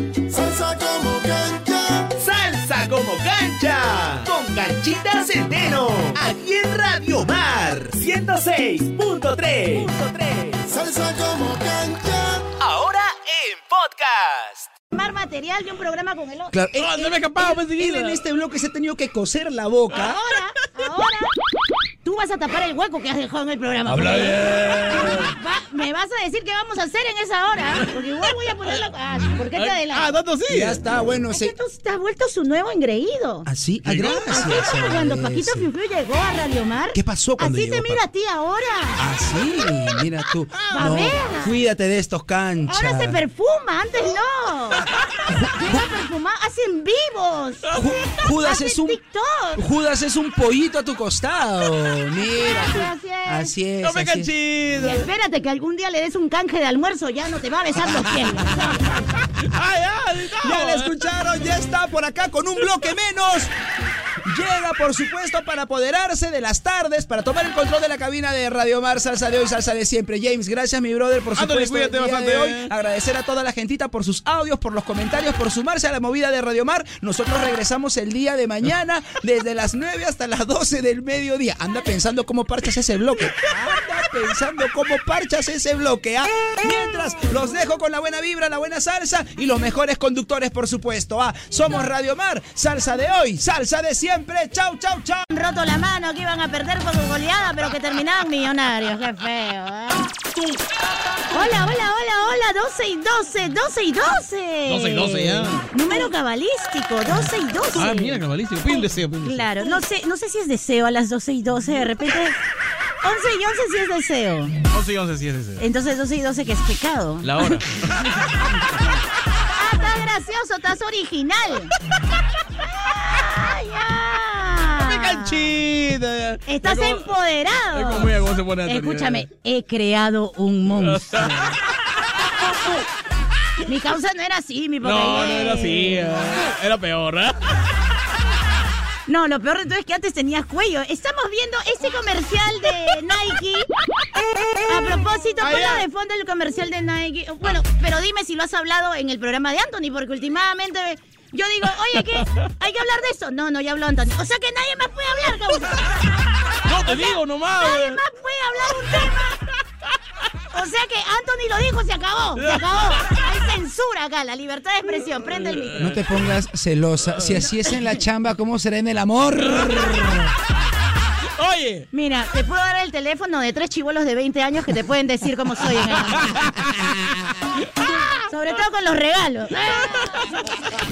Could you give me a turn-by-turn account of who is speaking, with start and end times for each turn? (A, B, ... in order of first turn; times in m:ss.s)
0:00.3-0:02.1 A
0:02.1-0:10.6 B
0:10.7-0:12.5 A
0:12.5-0:14.7 B
0:14.9-0:16.8 C
0:16.5-0:20.2 D
0:16.7-0:18.2 E
0:19.9-0:21.3 C
0:22.0-0:24.4 C
0:23.8-0:25.3 E
0:25.0-0:30.1 C
0:29.5-0:30.8 E
0:30.5-0:31.5 D
0:31.3-0:33.5 C
0:33.4-0:35.7 D
0:33.8-0:34.2 E
0:34.0-0:39.1 C
0:36.9-0:38.0 D
0:39.0-0:43.2 D
0:40.6-0:41.1 E
0:40.7-0:41.6 C
0:42.7-0:44.8 C
0:45.3-0:45.9 D
0:45.5-0:49.6 C
0:47.7-0:49.0 D
0:49.6-0:54.3 D
0:52.2-0:53.5 C
0:53.8-0:55.0 E
0:54.8-0:58.8 C
0:59.4-1:00.9 E
1:00.4-1:03.5 D
1:04.2-1:35.2 D
1:11.3-1:12.7 E
1:35.3-1:40.1 C
1:41.3-1:52.4 C
1:44.6-1:45.7 E
1:47.7-1:49.7 E
1:53.0-1:54.6 C
1:54.7-1:55.6 E
1:55.6-1:57.6 C
1:57.2-1:58.0 E
1:59.5-2:01.7 C
2:02.6-2:05.6 C
2:04.8-2:07.1 E
2:06.4-2:11.5 C
2:07.6-2:09.3 E
2:10.7-2:11.6 E
2:13.6-2:16.1 C
2:14.8-2:17.4 E
2:19.0-2:23.7 C
2:24.6-2:35.9 C
2:25.4-2:25.8 E
2:36.6-2:38.0 E
2:36.8-2:39.4 C
2:40.5-2:45.9 C
2:42.5-2:42.9 E
2:45.5-2:45.8 E
2:45.8-2:50.3 D
2:49.5-2:49.8 E
2:51.4-2:51.9 E
2:51.9-2:56.5 C
2:56.2-2:57.2 E
2:58.2-3:00.4 C